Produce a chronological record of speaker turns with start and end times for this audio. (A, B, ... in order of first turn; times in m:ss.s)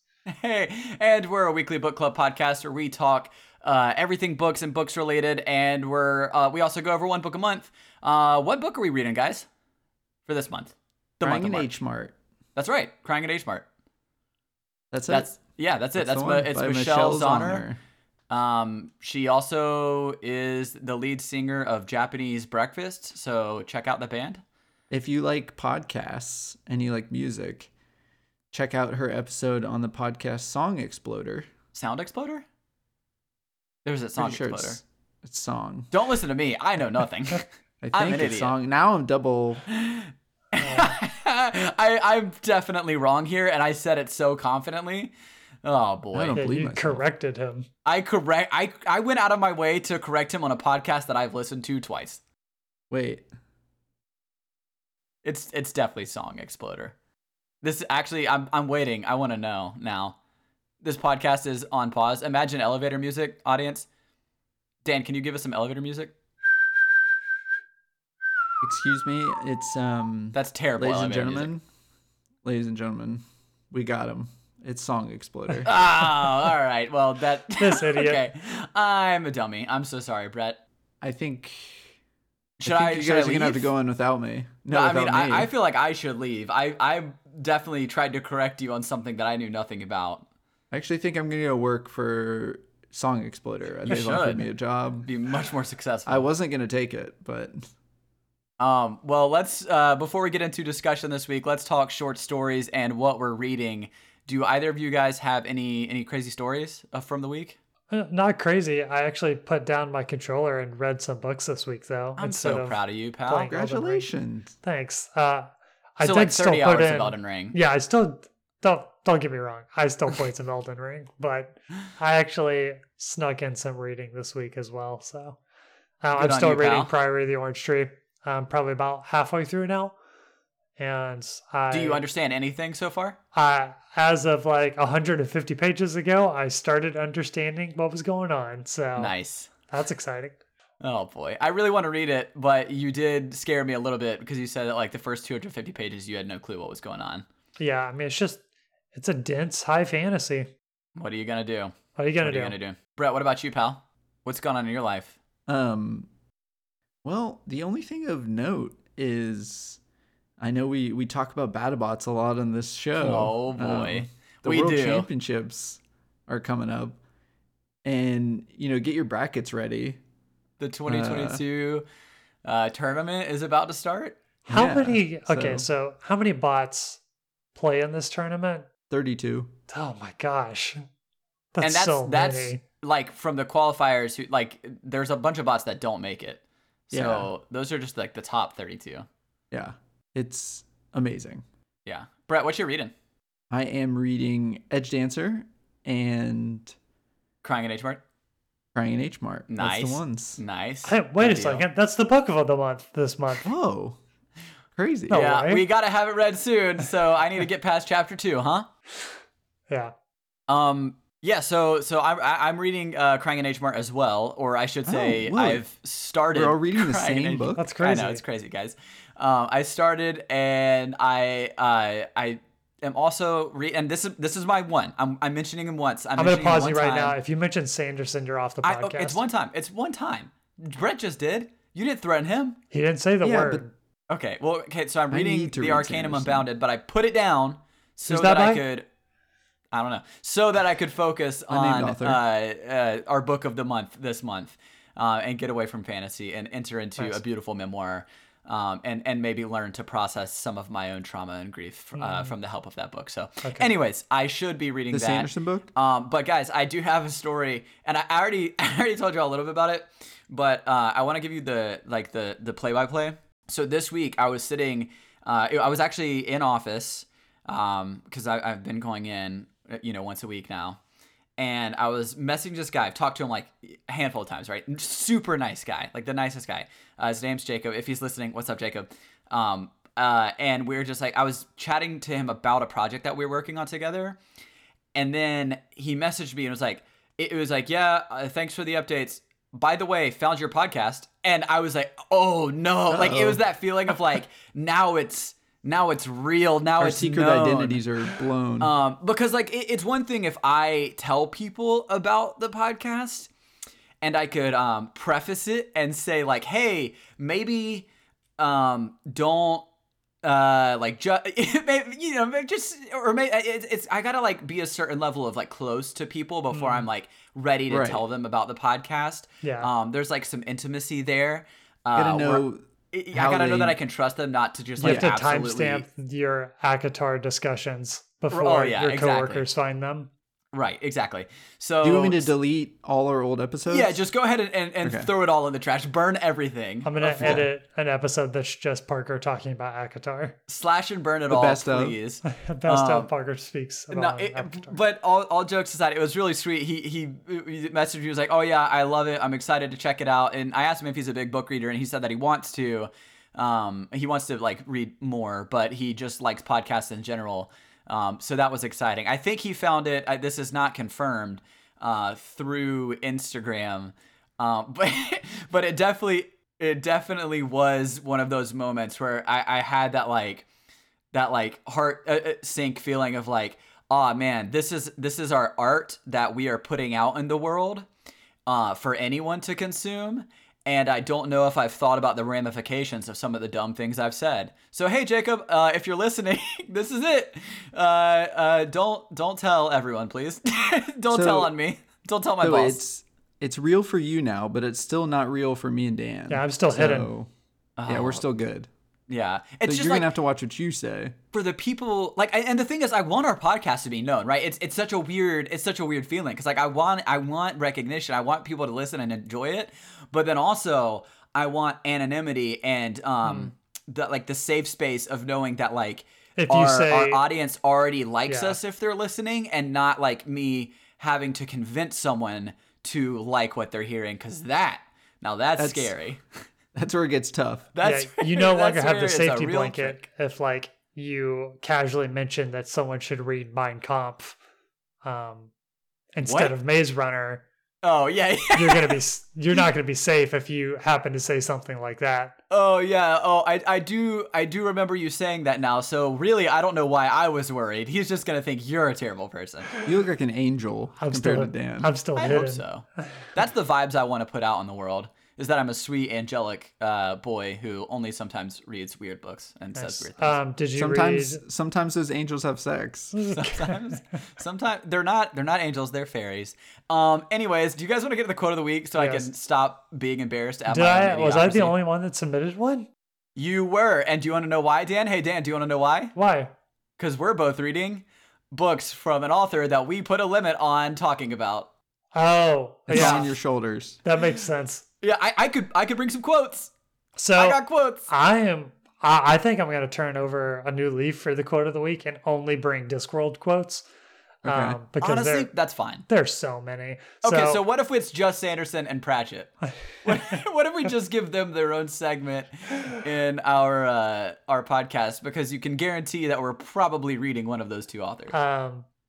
0:00.3-0:09.5 A
0:10.3-0:11.7 A
0:11.2-0:12.2 B
0:12.6-0:13.6 A
0:14.9-0:15.4 B
0:15.1-0:17.6 A
0:16.0-0:17.8 B
0:18.3-0:24.4 A
0:24.9-0:27.7 B
0:28.5-0:31.5 B
0:31.7-0:32.4 A
0:33.8-0:34.8 A
0:34.2-0:35.9 B
0:35.9-0:38.5 A
0:37.8-0:39.6 B
0:39.7-0:45.1 A
0:40.6-0:41.0 C
0:45.6-0:46.4 A
0:46.1-0:47.0 B
0:46.4-0:47.7 C
0:47.8-0:52.2 A
0:52.9-0:53.3 B
0:55.2-0:56.9 A
0:57.6-1:00.2 A
1:00.8-1:03.9 A
1:04.8-1:06.1 A
1:08.6-1:11.6 B
1:10.3-1:11.5 A
1:12.4-1:15.8 B
1:15.6-1:20.6 A
1:17.6-1:18.2 C
1:21.0-1:21.9 B
1:22.6-1:25.5 B
1:22.6-1:23.7 A
1:24.7-1:30.2 A
1:30.7-1:35.1 B
1:33.8-1:34.5 A
1:35.0-1:36.3 A
1:36.1-1:37.7 B
1:38.6-1:47.6 A
1:47.9-1:54.1 C
1:52.2-1:53.5 A
1:53.5-1:54.5 B
1:54.6-2:05.4 C
1:56.0-1:57.6 A
2:06.0-2:10.0 C
2:06.2-2:06.9 A
2:10.8-2:12.0 C
2:11.7-2:13.2 A
2:13.3-2:19.1 C
2:19.0-2:19.5 A
2:19.7-2:20.4 C
2:20.8-2:27.2 A
2:27.6-2:28.4 C
2:28.9-2:30.5 C
2:31.0-2:35.2 A
2:32.0-2:32.6 C
2:35.5-2:36.1 B
2:37.0-2:39.8 B
2:40.4-2:47.0 B
2:43.0-2:45.1 A
2:47.8-2:50.0 B
2:50.6-2:51.8 A
2:50.9-2:51.4 B
2:52.4-2:54.2 A
2:54.5-2:57.0 C
2:54.5-2:55.7 B
2:57.6-2:58.7 C
2:58.9-2:59.5 B
2:59.7-3:00.9 C
3:01.5-3:02.6 C
3:01.6-3:09.1 A
3:06.9-3:07.3 B
3:09.5-3:11.4 B
3:11.9-3:12.9 A
3:13.5-3:16.7 B
3:17.4-3:18.0 A
3:18.8-3:20.4 B
3:19.5-3:21.6 A
3:20.8-3:23.5 C
3:23.4-3:24.0 B
3:24.8-3:25.3 B
3:25.1-3:25.6 C
3:25.1-3:28.7 A
3:30.5-3:47.2 A
3:34.8-3:35.6 B
3:36.3-3:37.7 B
3:37.6-3:38.2 C
3:46.2-3:49.2 C
3:48.6-3:52.6 A
3:52.7-3:53.7 C
3:53.2-3:53.6 B
3:54.1-3:58.8 A
3:55.1-3:56.5 B
3:58.1-3:58.6 C
3:59.7-4:30.8 A
4:01.5-4:02.2 B
4:12.0-4:12.3 C
4:13.4-4:13.7 C
4:14.9-4:15.7 B
4:31.4-4:44.2 A
4:45.0-4:57.8 A
4:52.9-4:53.4 B
4:56.8-4:58.7 B
4:58.6-5:03.3 A
5:04.0-5:07.9 A
5:08.4-5:09.6 A
5:10.2-5:25.8 A
5:16.5-5:16.9 C
5:17.7-5:18.0 B
5:19.4-5:19.7 C
5:22.0-5:23.8 B
5:24.8-5:30.1 C
5:24.8-5:25.1 B
5:28.3-5:29.4 A
5:30.5-5:32.3 A
5:31.8-5:34.0 B
5:33.7-5:37.4 A
5:34.8-5:35.1 B
5:36.8-5:40.4 C
5:37.2-5:37.5 B
5:40.5-5:43.1 A
5:41.3-5:42.0 B
5:42.3-5:44.8 C
5:43.9-6:10.4 A
6:11.1-6:17.9 A
6:18.5-6:32.8 A
6:31.1-6:31.5 B
6:32.4-6:37.3 B
6:36.3-6:37.1 C
6:37.8-6:38.2 A
6:37.9-6:38.7 B
6:39.1-6:40.1 A
6:39.7-6:41.2 B
6:41.3-7:06.2 A
6:53.2-6:53.5 C
6:56.4-6:57.2 C
6:58.3-6:58.6 C
7:05.6-7:05.9 B
7:06.7-7:07.7 B
7:07.7-7:10.0 A
7:07.8-7:14.4 C
7:15.0-7:15.5 C
7:16.1-7:17.4 C
7:16.3-7:16.5 A
7:17.8-7:19.0 A
7:18.5-7:22.4 C
7:22.5-7:29.8 A
7:29.8-7:31.9 B
7:31.0-7:32.6 C
7:32.2-7:40.4 A
7:39.8-7:41.4 C
7:40.8-7:43.2 B
7:43.1-7:44.0 C
7:43.3-7:51.7 A
7:49.0-7:49.3 C
7:50.7-7:52.9 C
7:53.4-7:56.1 A
7:56.2-7:56.5 C
7:57.0-8:01.7 A
8:02.1-8:03.3 C
8:02.9-8:04.0 B
8:02.9-8:03.3 A
8:04.0-8:04.8 C
8:05.0-8:06.7 A
8:07.2-8:13.8 C
8:07.4-8:08.1 A
8:14.4-8:14.8 B
8:14.4-8:15.5 C
8:15.0-8:16.1 A
8:16.1-8:17.6 C
8:17.2-8:19.5 A
8:20.0-8:28.4 A
8:20.1-8:20.4 C
8:28.3-8:28.8 C